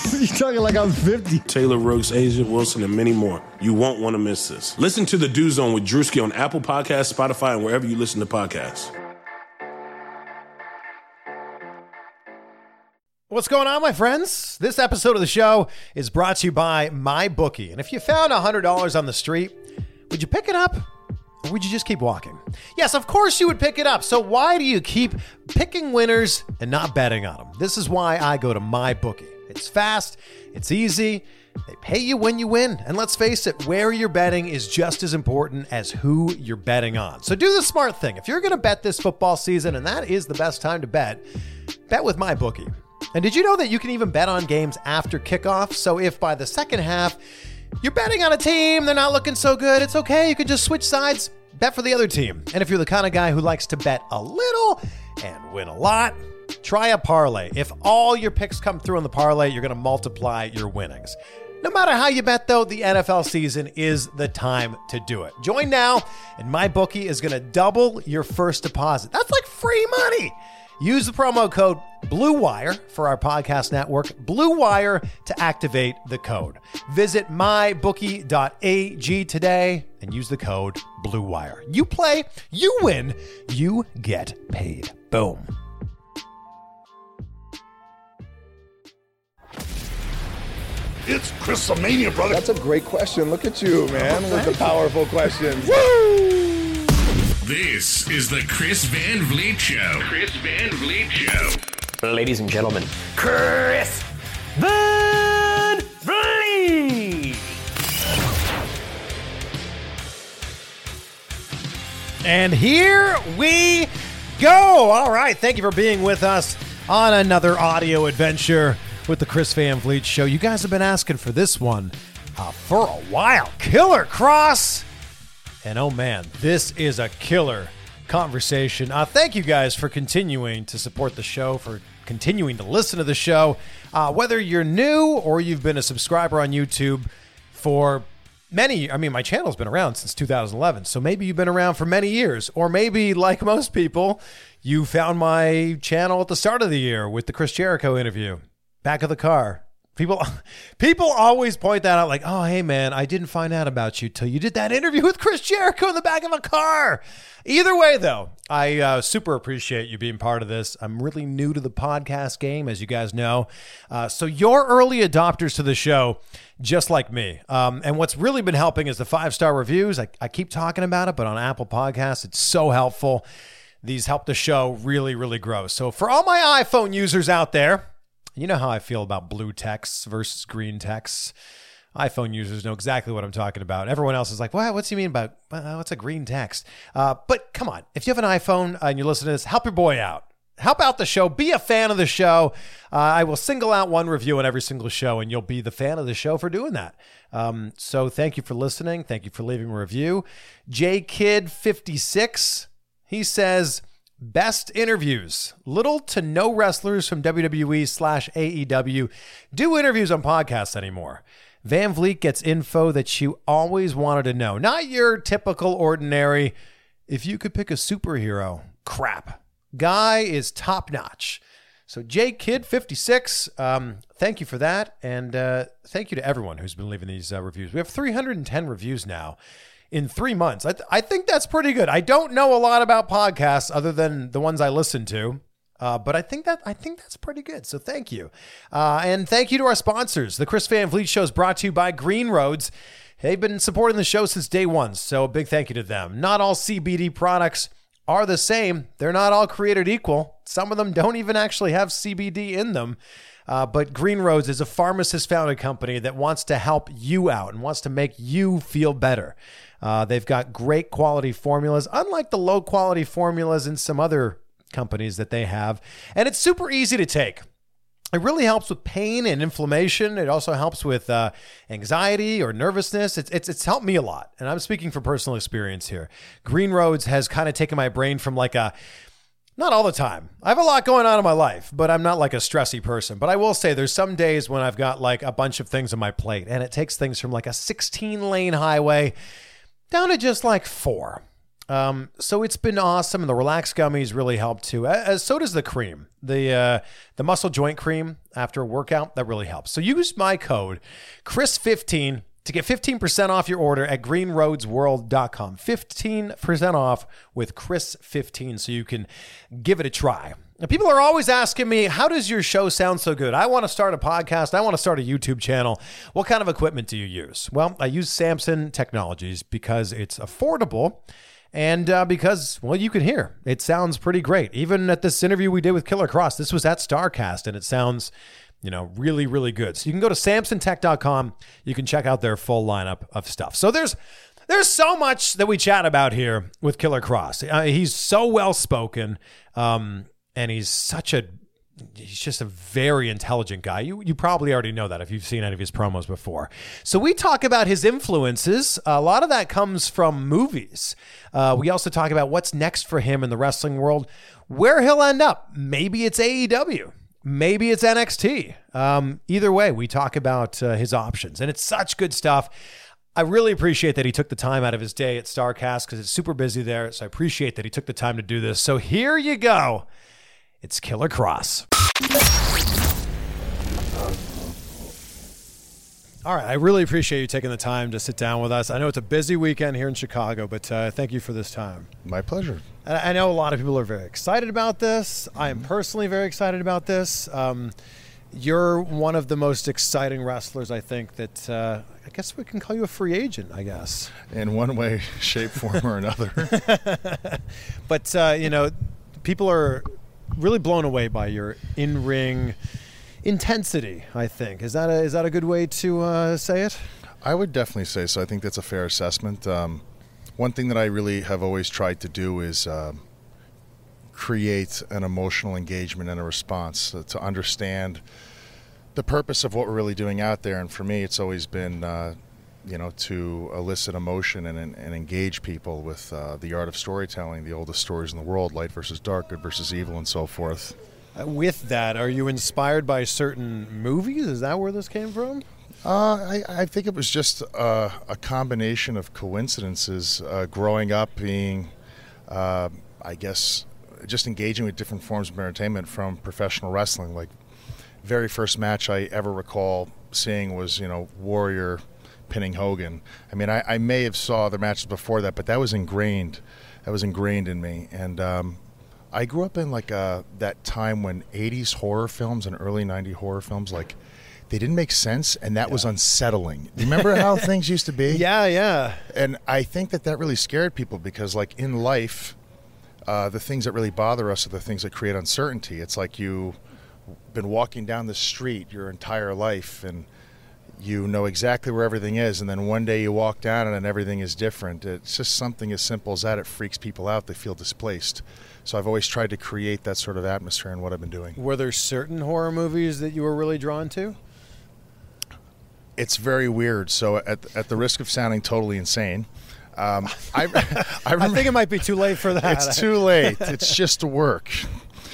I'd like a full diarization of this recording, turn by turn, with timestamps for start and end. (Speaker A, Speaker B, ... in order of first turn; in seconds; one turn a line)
Speaker A: 1.5-8.9
Speaker B: 13.3-19.6
Speaker B: 20.1-20.9
Speaker B: 21.4-41.2
Speaker B: 41.9-47.2
Speaker B: 47.8-85.5
Speaker C: 91.5-92.3
Speaker D: 92.2-96.1
Speaker C: 97.4-101.6
Speaker E: 102.0-107.4
Speaker B: 112.2-124.9
Speaker B: 125.6-173.3
Speaker B: 173.8-181.3
Speaker B: 181.9-216.6
Speaker B: 217.1-229.4
Speaker B: 229.9-267.4
Speaker B: 268.1-278.7
Speaker B: 279.6-289.1
Speaker B: 289.9-321.0
Speaker B: 321.5-328.1
Speaker B: 328.6-334.0
Speaker B: 334.5-362.5
Speaker B: 363.1-369.9
Speaker B: 370.6-371.6
Speaker B: 376.2-381.9
Speaker F: 382.0-382.6
Speaker B: 382.9-387.7
Speaker B: 388.3-394.1
Speaker F: 394.3-396.5
Speaker B: 396.5-402.6
Speaker B: 403.2-406.9
Speaker F: 407.2-409.8
Speaker F: 410.4-413.0
Speaker F: 414.1-418.0
Speaker F: 418.9-430.8
Speaker B: 431.2-435.4
Speaker F: 435.8-441.7
Speaker F: 442.3-447.3
Speaker F: 448.0-458.6
Speaker F: 459.1-468.2
Speaker B: 466.8-467.5
Speaker B: 468.1-469.1
Speaker F: 469.1-472.4
Speaker F: 473.1-476.6
Speaker F: 477.3-480.1
Speaker F: 480.8-491.4
Speaker B: 491.4-494.2
Speaker F: 496.0-501.7
Speaker B: 500.9-503.7
Speaker F: 502.3-504.8